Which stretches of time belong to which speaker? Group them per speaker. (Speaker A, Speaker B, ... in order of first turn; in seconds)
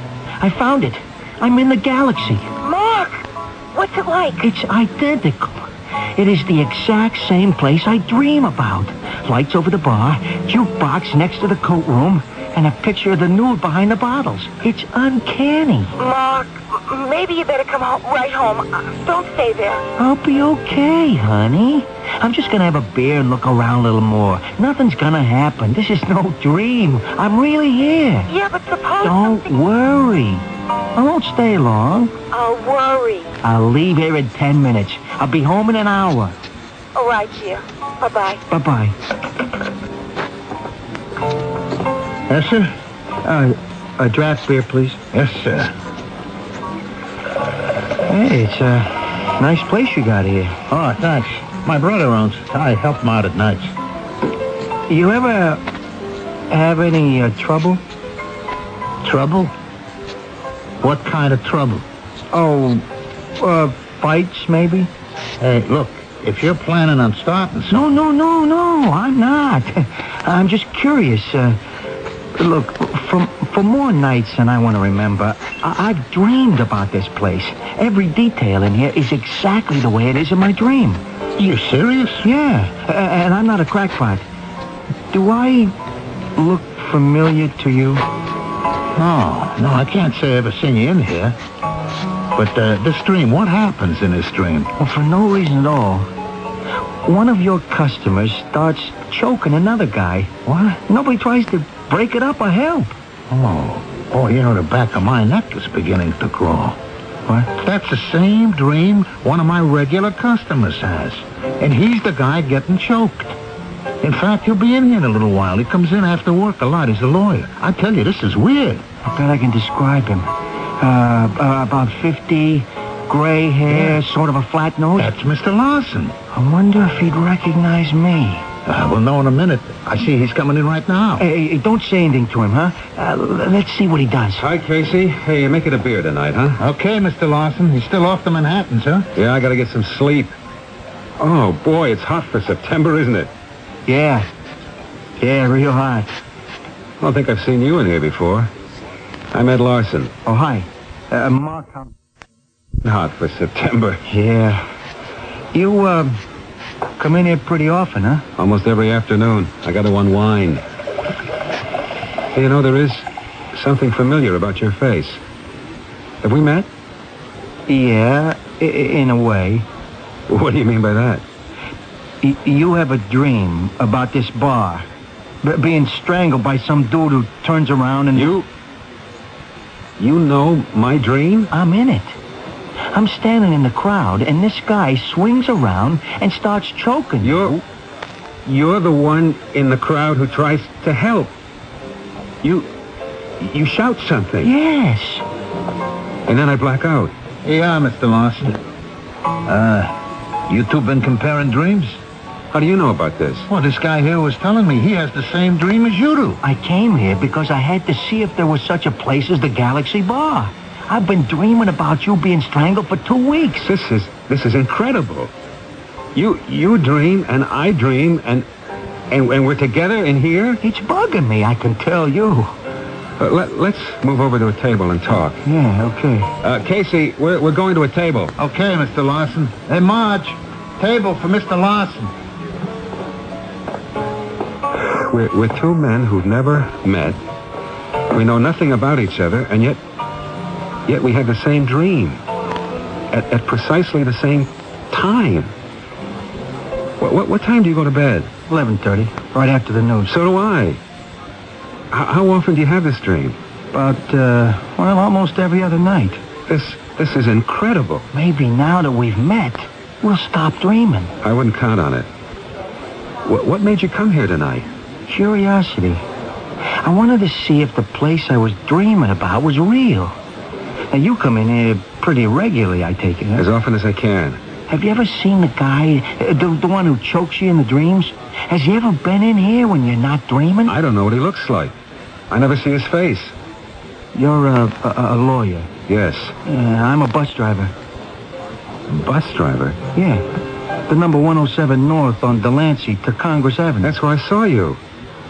Speaker A: 0.4-2.5, 4.4-15.9, 20.0-28.3, 29.0-32.1, 33.4-36.3, 38.5-38.9, 43.2-45.0, 48.1-50.6, 54.9-55.6, 56.5-57.8, 62.3-62.8, 63.4-64.9, 67.7-71.6, 72.3-81.0, 82.2-84.2, 85.1-85.7, 86.3-88.0, 94.8-96.1, 97.0-102.9, 119.0-125.1, 126.3-128.5, 131.2-134.4, 143.9-144.3, 145.2-146.1, 150.2-151.9, 154.1-154.7, 155.5-156.2, 157.0-158.2, 167.7-169.7, 172.2-174.8, 175.4-178.3, 181.5-182.2, 182.9-187.6, 194.4-195.2, 206.4-213.7, 220.6-222.5, 225.4-226.3, 248.5-250.1, 253.7-256.2, 258.1-261.1, 265.1-266.0, 266.8-270.2, 270.9-273.4, 274.7-280.7, 284.1-285.7, 286.4-287.7, 289.9-290.2, 290.9-293.9
Speaker B: 2.6-4.4, 16.0-19.8, 28.3-29.5, 32.3-33.3, 36.9-38.4
Speaker C: 42.3-42.7, 45.1-45.7, 50.7-53.7, 59.0-59.5, 60.8-61.8, 65.4-67.9, 81.4-82.2, 88.9-91.4, 92.3-94.7, 100.5-100.8, 103.3-106.8, 107.5-113.4, 114.0-118.8, 123.7-124.0, 125.0-126.1, 128.6-131.2, 136.6-139.1, 197.4-198.6, 199.4-200.0, 200.5-202.0, 203.5-206.4, 228.4-232.1
Speaker D: 134.4-136.6, 139.1-140.3, 141.2-143.3, 147.0-148.5, 149.3-150.1, 152.8-154.0, 158.3-160.6, 162.3-165.2, 166.2-166.7, 170.3-171.2, 178.1-178.4, 180.0-181.5, 187.2-187.6, 188.4-191.3, 192.4-192.7, 193.4-194.5, 196.3-197.1, 202.5-203.5, 213.6-215.3, 216.1-218.5, 219.1-220.6, 223.2-225.4, 226.4-228.3, 234.7-237.2, 238.1-239.8, 240.9-242.2, 243.1-245.5, 247.0-248.3, 250.1-250.8, 251.9-253.4, 256.5-258.1, 261.2-262.1, 263.2-264.7, 273.4-274.4, 280.6-281.7, 282.3-283.3, 285.9-286.4, 288.9-289.8, 293.8-294.8